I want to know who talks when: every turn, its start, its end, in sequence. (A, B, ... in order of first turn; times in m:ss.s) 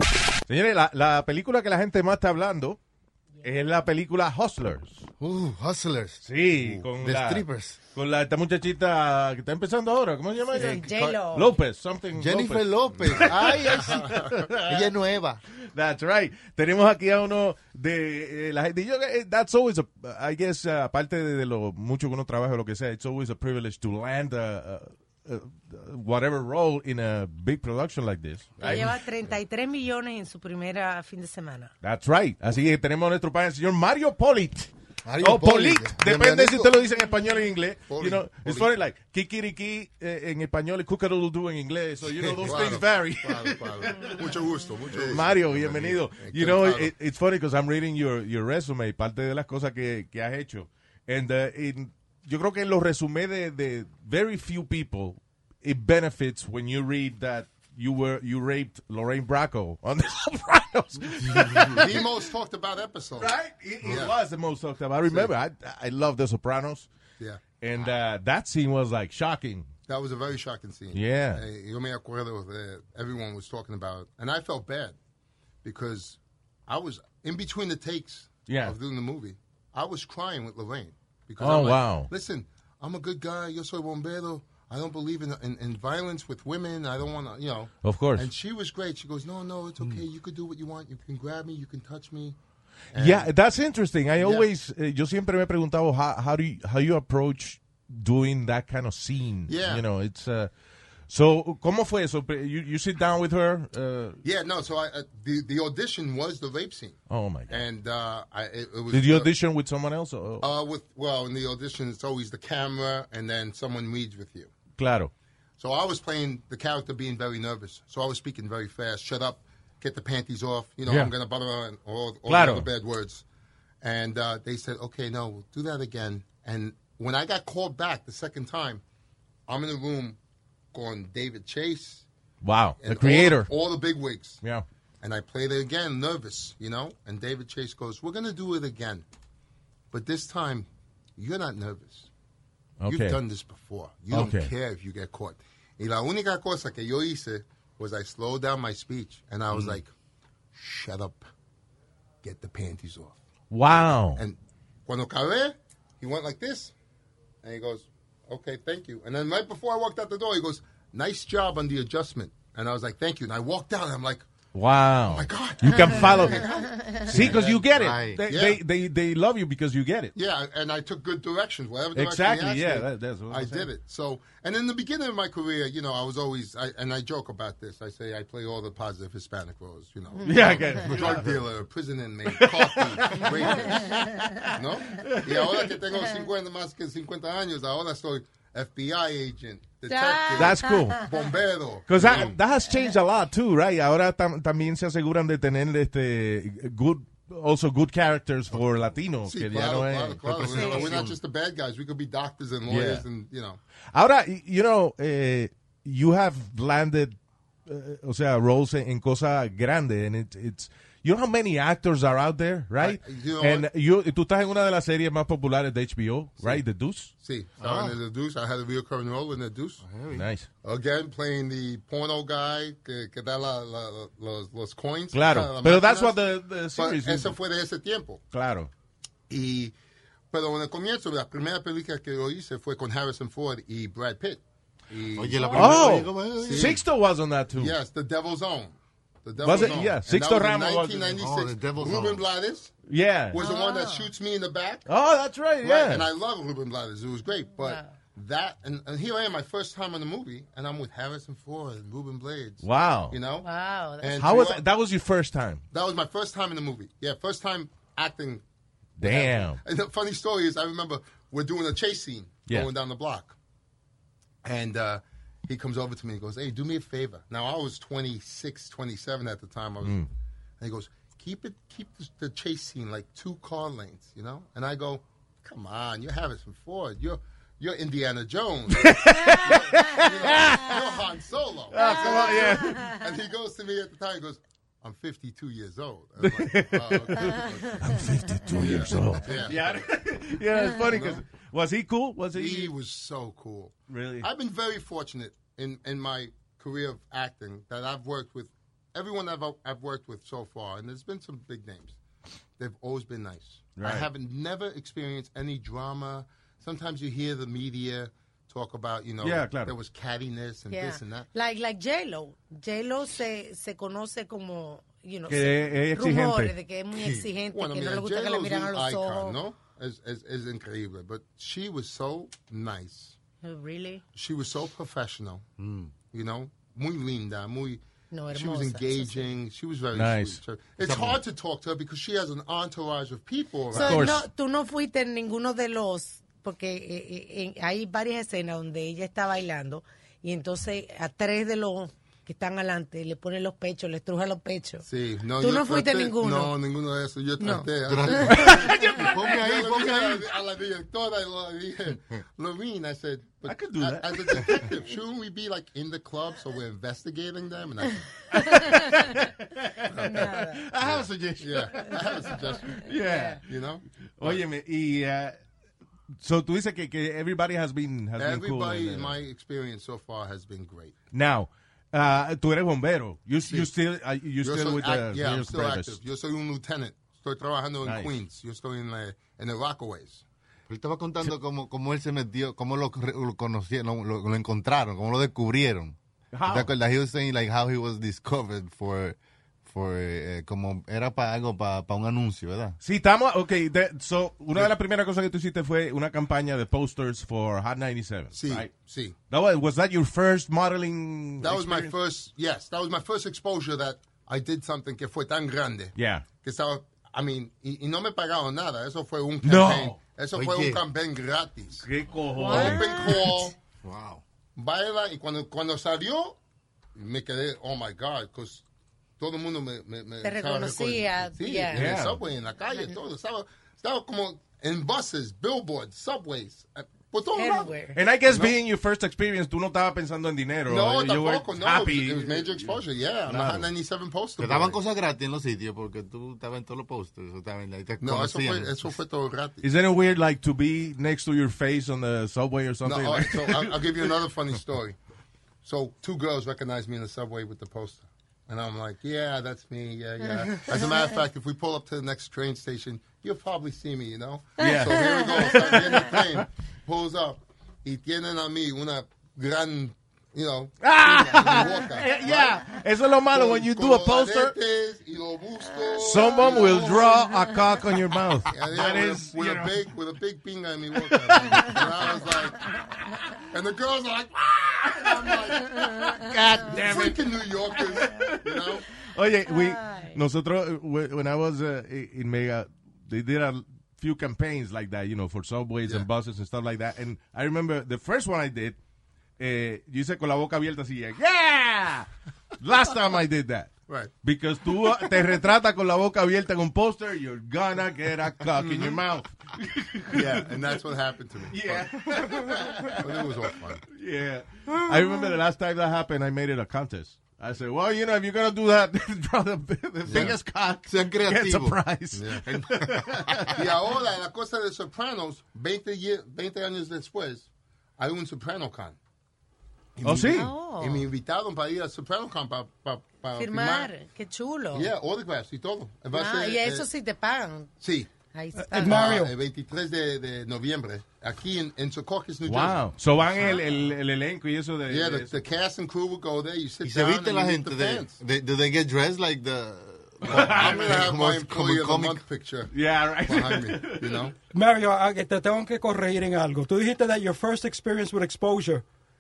0:00.5-0:02.8 A
0:03.4-0:05.1 A
0:05.2-0:07.8 B
0:06.2-0:14.9 A
0:10.5-0:11.6 C
0:10.6-0:11.2 B
0:12.2-0:15.4 B
0:13.0-0:14.3 D
0:15.7-0:28.9 A
0:28.6-0:31.7 C
0:31.8-0:44.3 A
0:35.0-0:36.6 B
0:36.2-0:36.7 D
0:37.9-0:38.7 D
0:42.0-0:46.9 D
0:45.0-1:02.0 A
1:01.2-1:01.8 B
1:01.7-1:04.2 D
1:03.2-1:06.9 A
1:05.1-1:05.3 D
1:07.6-1:09.7 A
1:09.9-1:15.0 D
1:10.9-1:11.4 A
1:15.6-1:32.4 D
1:18.5-1:18.8 A
1:21.4-1:22.1 A
1:27.8-1:28.3 A
1:32.9-1:33.3 D
1:33.0-1:40.5 A
1:34.2-1:34.5 D
1:39.5-1:39.8 D
1:41.1-1:44.2 A
1:44.2-1:47.0 D
1:47.1-1:47.6 A
1:47.5-1:49.3 D
1:48.9-1:50.5 A
1:50.4-1:54.5 D
1:54.8-1:55.1 A
1:55.6-2:03.2 D
2:00.9-2:01.1 A
2:02.3-2:02.7 A
2:03.8-2:08.8 D
2:09.5-2:10.2 D
2:10.7-2:12.1 D
2:12.4-2:13.5 A
2:12.8-2:14.4 D
2:15.0-2:19.1 D
2:19.9-2:22.1 D
2:22.8-2:23.2 A
2:22.9-2:29.9 D
2:24.1-2:24.5 A
2:30.5-2:31.2 D
2:32.2-2:33.2 D
2:33.5-2:34.2 A
2:33.7-2:36.7 D
2:37.4-2:44.3 D
2:44.5-2:46.5 A
2:45.1-2:48.6 D
2:45.7-2:47.1 C
2:47.1-2:50.1 A
2:47.1-2:48.2 B
2:50.2-3:12.4 D
2:52.0-2:53.7 A
3:00.2-3:01.2 A
3:00.9-3:01.3 B
3:02.3-3:05.8 A
3:03.8-3:04.3 C
3:09.9-3:11.0 C
3:10.4-3:11.0 A
3:11.9-3:21.1 A
3:19.3-3:23.6 D
3:20.4-3:21.0 C
3:22.7-3:23.0 A
3:23.9-3:27.2 A
3:27.7-3:37.1 A
3:32.8-3:33.7 D
3:37.2-3:39.8 D
3:37.6-3:38.0 B
3:39.8-3:40.3 B
3:40.1-3:40.5 A
3:40.6-3:46.2 D
3:45.1-3:47.4 A
3:46.8-3:48.2 D
3:48.3-3:48.7 A
3:49.3-3:49.8 D
3:50.3-3:56.8 D
3:55.2-3:56.8 B
3:55.4-3:55.7 C
3:55.5-3:57.8 A
3:57.5-4:02.7 D
3:59.4-4:01.2 A
4:01.2-4:02.2 B
4:02.9-4:03.4 A
4:03.3-4:04.9 D
4:03.4-4:04.1 C
4:04.9-4:06.1 A
4:05.6-4:13.5 D
4:07.6-4:07.9 C
4:12.6-4:13.2 A
4:13.4-4:14.1 C
4:14.0-4:14.6 D
4:14.1-4:15.6 A
4:15.7-4:18.4 D
4:19.0-4:19.6 A
4:19.0-4:23.4 D
4:24.4-4:30.0 D
4:29.8-4:30.1 A
4:30.6-4:48.0 D
4:38.7-4:40.8 A
4:41.7-4:43.0 A
4:41.8-4:43.0 C
4:46.2-4:52.7 A
4:48.5-4:49.9 D
4:50.6-4:50.9 C
4:50.8-4:51.2 D
4:52.3-5:02.0 D
4:53.9-4:54.3 A
5:02.6-5:11.3 D
5:03.8-5:04.1 A
5:09.2-5:09.7 A
5:10.7-5:19.4 C
5:15.3-5:16.5 A
5:16.9-5:17.3 B
5:17.5-5:23.2 D
5:23.4-5:24.0 C
5:24.1-5:25.4 D
5:25.6-5:25.9 B
5:26.1-5:34.2 D
5:28.1-5:29.3 C
5:30.0-5:30.4 A
5:30.8-5:31.2 B
5:33.7-5:44.9 C
5:33.8-5:34.2 A
5:44.8-5:58.1 D
5:45.4-5:46.5 C
5:47.4-5:48.5 C
5:47.9-5:50.2 B
5:48.3-5:49.1 A
5:53.4-5:54.7 A
5:58.3-5:59.2 C
5:58.4-6:03.4 A
5:59.8-6:04.4 D
6:00.0-6:00.6 C
6:01.8-6:03.4 C
6:04.2-6:05.4 A
6:06.2-6:09.2 A
6:08.2-6:11.0 D
6:11.1-6:16.0 A
6:13.4-6:13.7 D
6:14.4-6:20.2 D
6:17.8-6:18.1 A
6:20.7-6:26.0 B
6:26.3-6:26.7 A
6:26.5-6:32.8 B
6:32.8-6:38.7 A
6:38.3-6:39.2 D
6:39.3-6:41.9 A
6:41.4-6:51.9 D
6:46.0-6:46.3 A
6:49.4-6:50.0 A
6:50.3-6:50.8 B
6:51.8-6:53.2 A
6:52.4-6:53.4 C
6:52.4-6:53.6 D
6:53.8-6:54.2 B
6:54.6-6:56.4 D
6:57.0-6:58.6 D
6:59.2-7:07.7 D
7:00.2-7:01.9 C
7:01.7-7:02.2 A
7:07.4-7:08.0 C
7:07.9-7:12.7 A
7:08.3-7:08.6 D
7:10.7-7:14.8 D
7:13.3-7:13.7 A
7:14.4-7:18.7 B
7:18.0-7:19.7 D
7:19.6-7:23.8 A
7:22.8-7:25.0 D
7:25.6-7:42.7 D
7:30.3-7:31.0 C
7:34.6-7:36.2 A
7:34.6-7:35.7 C
7:40.8-7:44.5 A
7:43.3-7:47.3 D
7:46.0-7:49.8 A
7:46.2-7:47.5 C
7:48.5-7:52.6 D
7:51.0-7:51.8 A
7:53.4-7:58.9 D
7:55.0-8:08.8 A
7:55.9-7:56.2 C
7:59.5-8:00.2 C
8:09.4-8:12.1 A
8:12.6-8:20.5 A
8:18.6-8:19.0 D
8:20.1-8:23.8 D
8:21.5-8:23.3 A
8:23.9-8:33.6 A
8:30.0-8:30.4 D
8:30.1-8:31.8 B
8:32.1-8:32.4 D
8:32.5-8:33.6 B
8:33.5-8:39.0 D
8:40.0-8:43.9 D
8:40.0-8:40.5 A
8:40.3-8:41.1 C
8:43.4-8:44.9 C
8:44.7-8:46.9 D
8:46.1-8:47.7 C
8:47.8-8:48.1 D
8:48.3-8:49.1 C
8:48.6-8:49.3 E
8:48.8-8:52.8 D
8:52.5-8:55.4 A
8:53.4-8:53.6 D
8:54.9-8:58.2 D
8:56.8-9:02.2 B
9:00.2-9:01.1 A
9:00.3-9:02.7 D
9:02.7-9:04.3 A
9:03.2-9:04.4 D
9:04.5-9:08.8 E